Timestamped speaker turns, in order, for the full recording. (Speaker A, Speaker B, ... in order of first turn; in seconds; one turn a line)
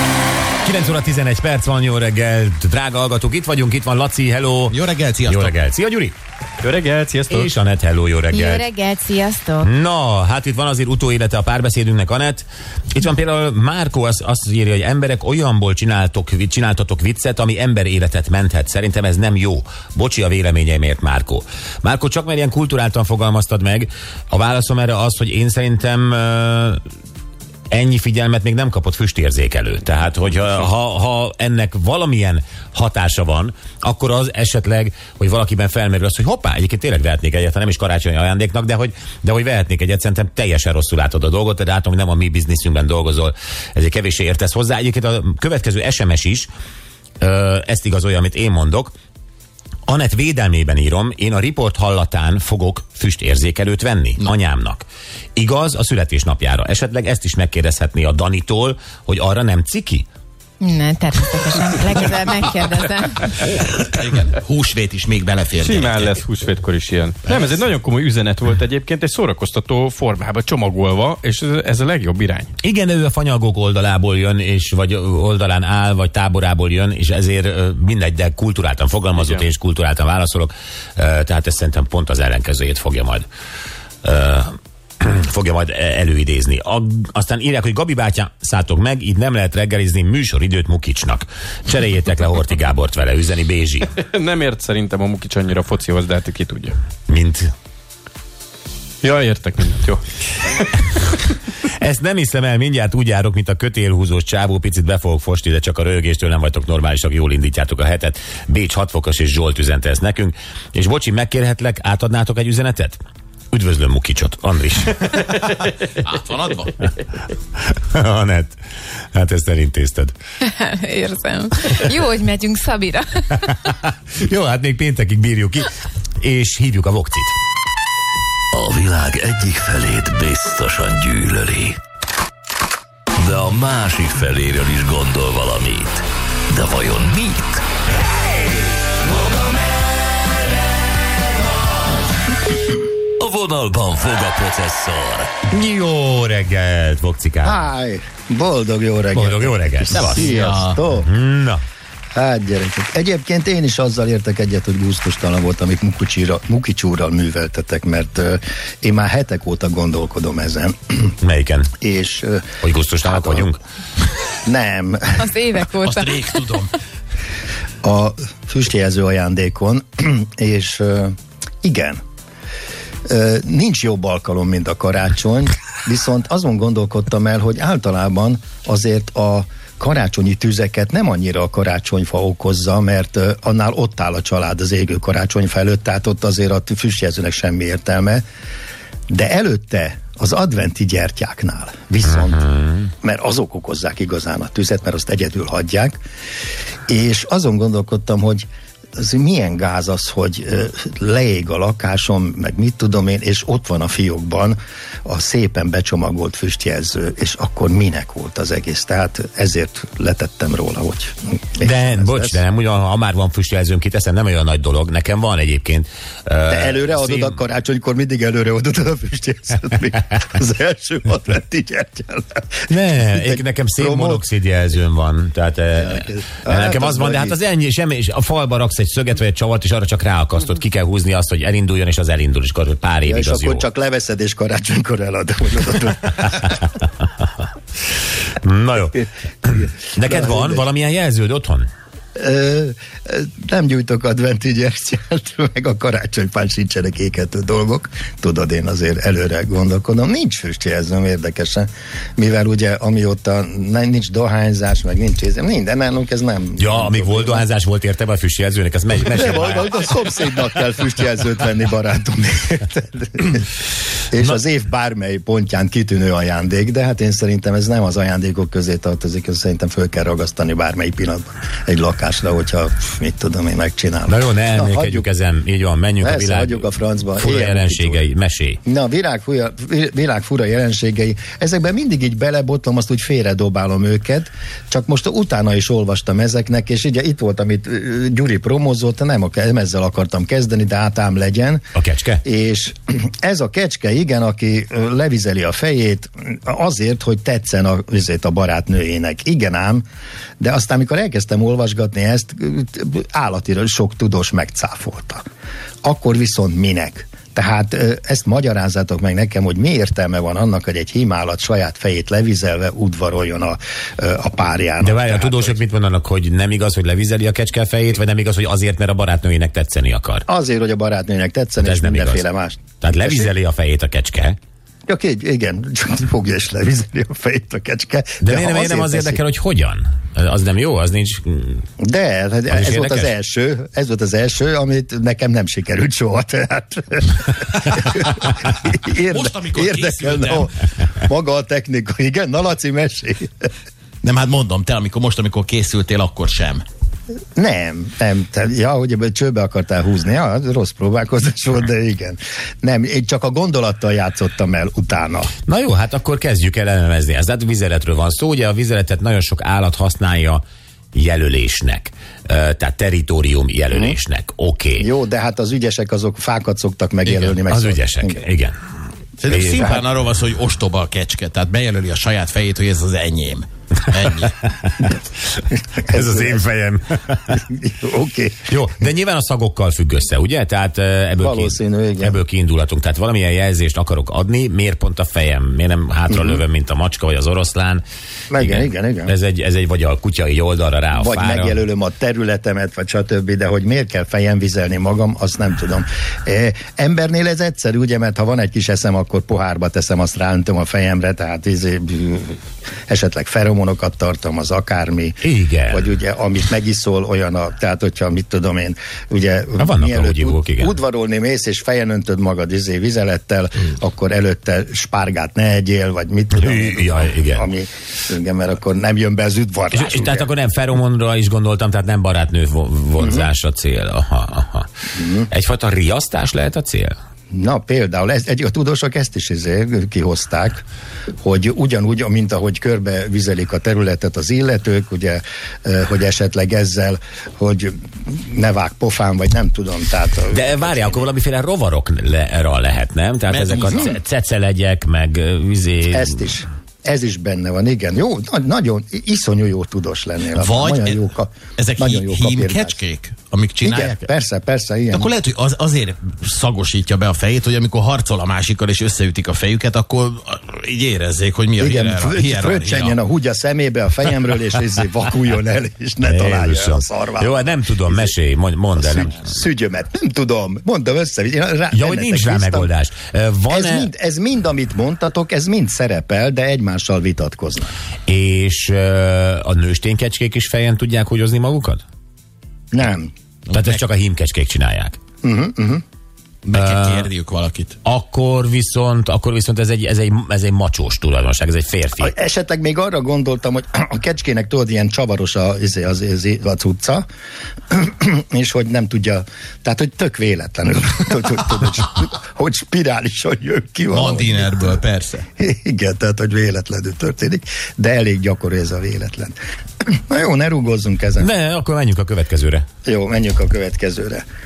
Speaker A: 0.6-6.2
Speaker B: 4.7-5.5
Speaker C: 6.6-7.5
Speaker A: 7.3-8.7
Speaker D: 8.3-9.7
Speaker A: 9.6-26.8
Speaker A: 27.7-46.5
Speaker A: 47.2-48.9
Speaker A: 49.9-60.1
Speaker D: 60.6-63.3
Speaker B: 63.5-66.2
Speaker C: 65.6-72.5
Speaker A: 72.6-83.3
Speaker A: 84.0-93.9
Speaker C: 93.9-96.7
Speaker A: 97.1-97.5
Speaker C: 99.0-100.0
Speaker A: 101.8-113.0
Speaker A: 113.5-115.5
Speaker B: 116.0-116.8
Speaker A: 117.7-118.6
Speaker A: 119.1-120.1
Speaker D: 120.4-123.4
Speaker A: 123.4-127.3
Speaker E: 128.5-131.8
Speaker E: 133.2-137.6
Speaker E: 143.2-145.4
Speaker A: 145.5-147.7
Speaker F: 147.4-151.1
Speaker A: 149.1-150.3
Speaker B: 150.2-150.8
Speaker A: 151.0-151.6
Speaker F: 152.2-161.1
Speaker A: 161.2-161.7
Speaker F: 161.8-162.5
Speaker A: 162.6-163.6
Speaker F: 163.0-163.5
Speaker F: 164.4-165.2
Speaker D: 165.2-166.2
Speaker B: 165.8-166.8
Speaker F: 167.8-172.0
Speaker F: 173.1-188.2
Speaker F: 189.1-192.4
Speaker A: 192.1-192.9
Speaker F: 193.0-196.0
Speaker F: 196.9-198.5
Speaker F: 199.0-212.4
Speaker A: 211.6-217.4
Speaker F: 216.5-224.2
Speaker A: 222.7-233.6
Speaker F: 225.8-227.4
Speaker F: 233.1-236.6
Speaker A: 238.4-241.7
Speaker F: 238.9-240.7
Speaker F: 242.2-257.5
Speaker A: 256.6-259.9
Speaker F: 259.1-263.5
Speaker F: 264.1-275.1
Speaker A: 274.1-278.6
Speaker F: 276.0-278.1
Speaker F: 278.6-291.6
Speaker A: 291.8-292.2
Speaker F: 292.2-299.8
Speaker F: 300.4-305.2
Speaker F: 305.8-315.6
Speaker A: 314.8-320.2
Speaker F: 320.3-323.3
Speaker A: 321.6-322.2
Speaker A: 322.8-324.4
Speaker F: 324.9-329.2
Speaker A: 328.2-331.6
Speaker F: 331.8-343.5
Speaker A: 332.5-333.1
Speaker B: 339.1-340.5
Speaker B: 344.0-346.6
Speaker F: 347.4-355.3
Speaker A: 355.5-360.4
Speaker A: 360.9-364.9
Speaker F: 363.7-364.0
Speaker F: 364.8-368.2
Speaker A: 367.5-368.6
Speaker B: 369.2-374.4
Speaker A: 369.3-369.6
Speaker F: 369.5-369.8
Speaker A: 374.4-374.9
Speaker F: 375.8-376.5
Speaker A: 375.9-377.4
Speaker F: 377.3-378.5
Speaker A: 378.5-387.8
Speaker F: 381.2-382.2
Speaker F: 386.1-386.4
Speaker F: 388.3-389.1
Speaker A: 388.4-391.6
Speaker F: 390.9-420.3
Speaker A: 405.2-405.9
Speaker A: 409.6-410.8
Speaker A: 416.3-417.5
Speaker A: 419.7-424.7
Speaker F: 423.0-423.3
Speaker F: 424.9-425.3
Speaker A: 425.3-426.9
Speaker F: 427.3-430.6
Speaker F: 431.2-441.1
Speaker A: 440.3-446.3
Speaker B: 443.3-443.9
Speaker F: 443.6-443.9
Speaker F: 445.9-452.8
Speaker B: 450.3-451.0
Speaker B: 451.6-454.1
Speaker F: 453.6-455.1
Speaker B: 454.9-463.0
Speaker F: 461.6-468.1
Speaker A: 466.0-469.3
Speaker F: 468.8-472.7
Speaker A: 471.7-473.9
Speaker F: 473.5-477.7
Speaker A: 478.1-481.8
Speaker F: 482.7-483.1
Speaker B: 483.5-483.8
Speaker A: 483.5-485.0
Speaker F: 485.2-485.8
Speaker B: 486.5-487.8
Speaker A: 486.5-487.1
Speaker A: 487.8-492.1
Speaker F: 492.0-497.1
Speaker F: 497.7-504.5
Speaker B: 503.9-505.2
Speaker F: 505.4-511.3
Speaker A: 511.2-512.7
Speaker F: 512.9-514.2